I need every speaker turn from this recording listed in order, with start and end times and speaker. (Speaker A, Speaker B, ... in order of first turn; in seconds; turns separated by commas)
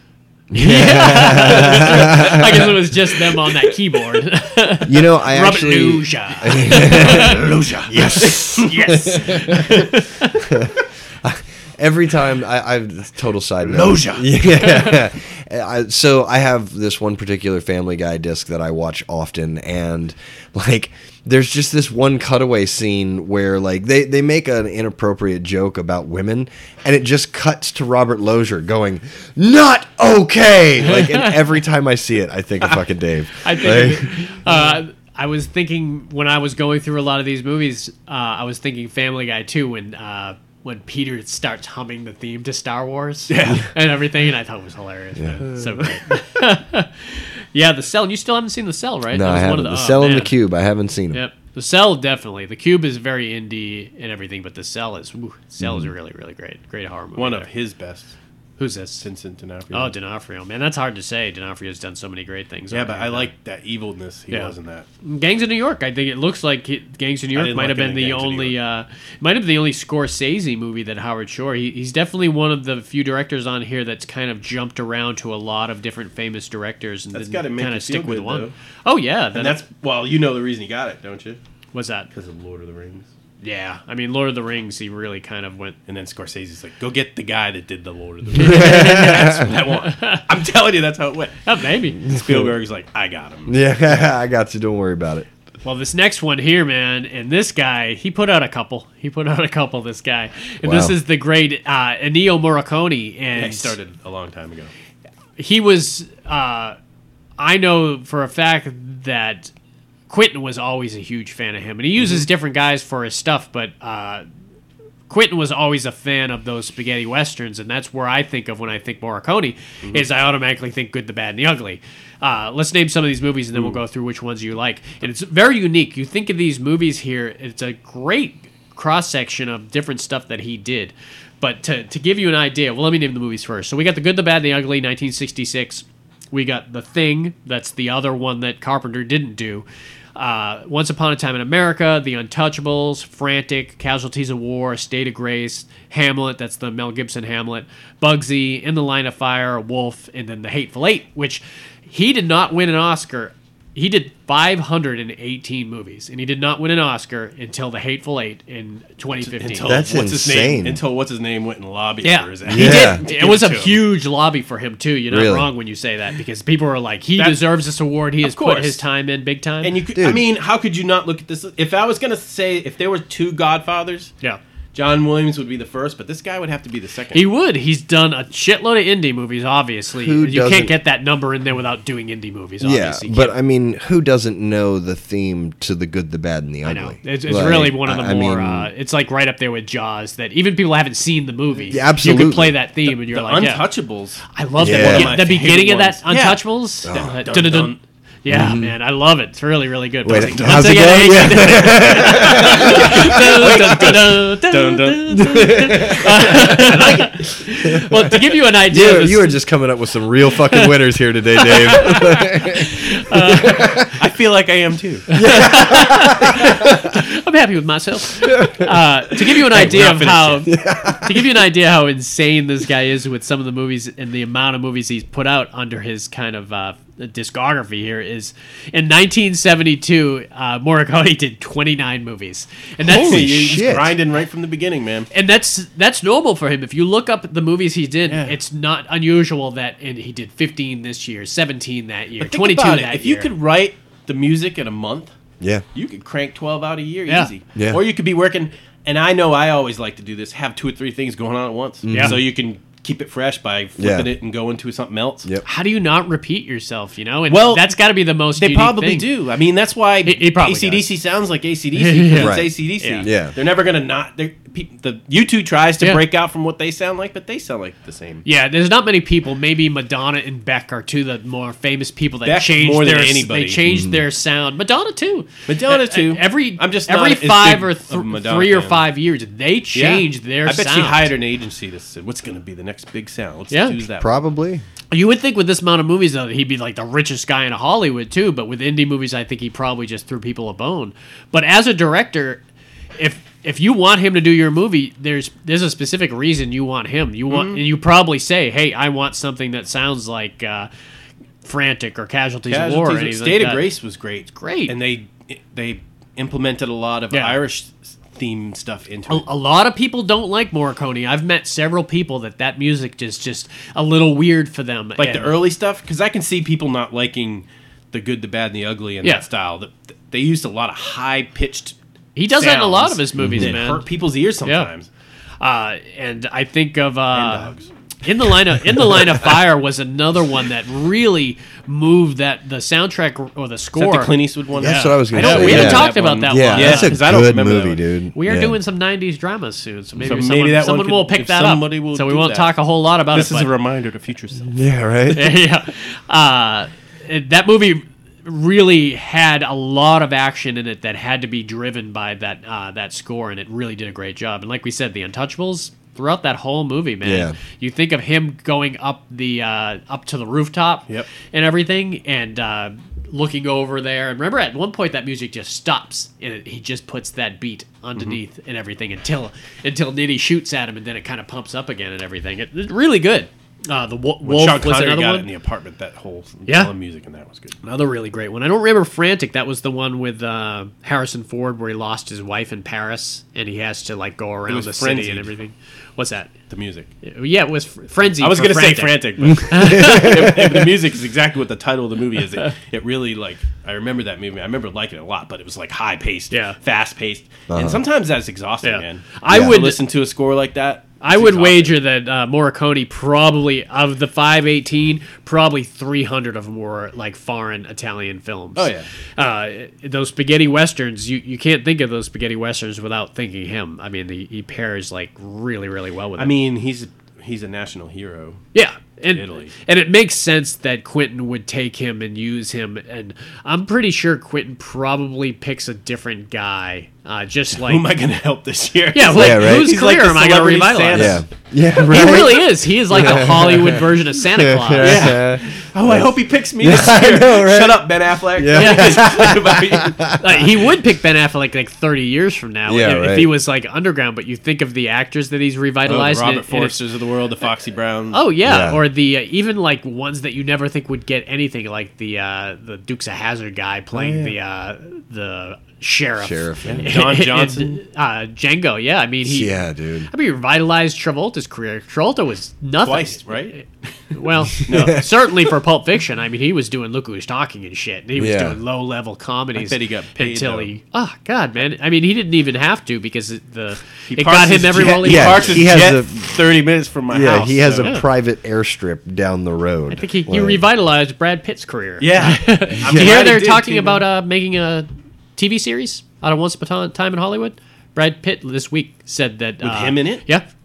Speaker A: 0.5-2.7, Speaker B: 0.5-7.4, Speaker A: 4.8-34.1, Speaker C: 6.7-8.8, Speaker B: 8.5-10.4, Speaker C: 13.6-14.3, Speaker B: 30.9-31.3, Speaker B: 33.4-50.4, Speaker C: 43.3-43.6, Speaker A: 45.2-45.5, Speaker A: 49.1-51.2, Speaker B: 51.1-57.5, Speaker A: 55.6-55.9, Speaker C: 57.1-58.1, Speaker B: 58.6-59.0, Speaker C: 59.0-59.9, Speaker B: 59.7-63.3, Speaker C: 62.7-64.9, Speaker B: 64.3-79.6, Speaker C: 67.3-68.5, Speaker C: 77.1-78.5, Speaker C: 79.3-81.4, Speaker B: 81.7-82.1, Speaker C: 82.1-83.1, Speaker B: 83.4-85.8, Speaker C: 85.9-93.5, Speaker A: 88.3-89.5, Speaker B: 88.4-90.3, Speaker B: 91.4-92.0, Speaker A: 92.2-92.5, Speaker A: 93.5-95.3, Speaker B: 95.6-103.7, Speaker A: 100.6-100.9, Speaker C: 103.4-104.7, Speaker B: 105.4-106.8, Speaker B: 107.4-109.5, Speaker B: 110.1-114.2, Speaker B: 115.1-159.8, Speaker C: 159.2-163.9, Speaker A: 159.6-160.8, Speaker B: 162.0-169.8, Speaker A: 162.4-163.0, Speaker A: 165.1-165.5, Speaker C: 167.2-167.5, Speaker C: 168.2-168.8, Speaker C: 169.6-174.1, Speaker A: 169.9-170.2, Speaker C: 174.7-177.2, Speaker B: 177.1-183.3, Speaker A: 180.0-180.7, Speaker A: 182.6-188.7, Speaker B: 186.6-193.7, Speaker A: 191.7-192.5, Speaker C: 192.9-197.8, Speaker B: 194.3-209.4, Speaker A: 194.6-195.2, Speaker A: 196.8-197.2, Speaker A: 198.3-198.7, Speaker A: 200.0-203.9, Speaker C: 202.1-207.2, Speaker A: 205.2-207.0, Speaker A: 207.6-214.0, Speaker B: 211.4-213.9, Speaker C: 213.9-215.1, Speaker B: 215.1-233.7, Speaker A: 215.1-217.0, Speaker A: 218.2-218.7, Speaker C: 219.4-220.5, Speaker A: 220.5-221.3, Speaker C: 232.8-235.1, Speaker A: 233.0-233.9, Speaker B: 235.1-243.3, Speaker C: 238.1-238.3, Speaker C: 242.2-245.1, Speaker C: 245.7-255.3, Speaker A: 247.6-247.8, Speaker A: 251.8-252.2, Speaker B: 251.9-252.2, Speaker A: 253.8-254.1, Speaker B: 255.4-259.1, Speaker C: 257.3-268.2, Speaker B: 260.0-260.9, Speaker B: 261.8-263.1, Speaker A: 262.1-263.3, Speaker B: 268.2-281.1, Speaker C: 272.2-273.6, Speaker A: 273.7-274.0, Speaker C: 275.5-278.8, Speaker C: 279.7-284.1, Speaker B: 283.5-283.8, Speaker A: 284.0-284.6, Speaker B: 284.9-292.4, Speaker B: 293.0-300.7, Speaker C: 297.3-297.6, Speaker B: 301.4-303.7, Speaker C: 302.5-309.2, Speaker B: 304.3-304.7, Speaker B: 307.1-307.4, Speaker B: 309.1-315.4, Speaker C: 315.0-321.8, Speaker B: 322.1-323.8, Speaker C: 322.4-324.9, Speaker A: 323.2-323.6, Speaker B: 324.4-324.7, Speaker B: 325.4-337.0, Speaker C: 327.1-327.7, Speaker C: 333.8-337.8, Speaker A: 334.6-338.6, Speaker B: 338.1-343.5, Speaker C: 340.0-342.6, Speaker C: 343.1-344.5, Speaker A: 344.4-345.4, Speaker B: 345.1-375.3, Speaker A: 357.0-357.4, Speaker C: 374.2-377.6, Speaker B: 376.4-376.7, Speaker B: 377.6-386.3, Speaker C: 384.5-385.3, Speaker C: 386.5-386.9, Speaker B: 387.0-390.4, Speaker C: 388.2-401.8, Speaker A: 389.8-390.0, Speaker B: 396.3-396.6, Speaker A: 397.5-397.8, Speaker B: 398.6-399.8, Speaker A: 399.3-399.6, Speaker B: 401.0-416.3, Speaker C: 408.6-408.9, Speaker C: 416.2-418.4, Speaker B: 418.5-427.8, Speaker C: 419.1-419.5, Speaker C: 427.6-431.2, Speaker B: 428.9-431.2, Speaker A: 429.1-429.7, Speaker A: 430.9-437.8, Speaker B: 431.8-435.2, Speaker C: 434.8-440.5, Speaker A: 438.4-440.2, Speaker B: 438.5-439.1, Speaker B: 440.2-446.8, Speaker A: 442.7-443.3, Speaker C: 445.9-448.2, Speaker B: 448.1-459.6, Speaker A: 448.4-448.8, Speaker A: 454.0-454.3, Speaker A: 456.2-456.9, Speaker C: 456.6-457.8, Speaker A: 459.2-460.1, Speaker B: 460.1-463.6, Speaker C: 462.8-463.7, Speaker B: 464.1-475.6, Speaker C: 464.5-465.1, Speaker A: 464.7-465.0, Speaker A: 468.2-468.6, Speaker C: 469.5-470.7, Speaker C: 474.1-478.0, Speaker A: 474.9-476.4, Speaker A: 477.1-480.6, Speaker B: 477.8-478.1, Speaker B: 479.9-490.4, Speaker C: 482.0-484.0, Speaker A: 482.8-483.1, Speaker C: 489.6-490.3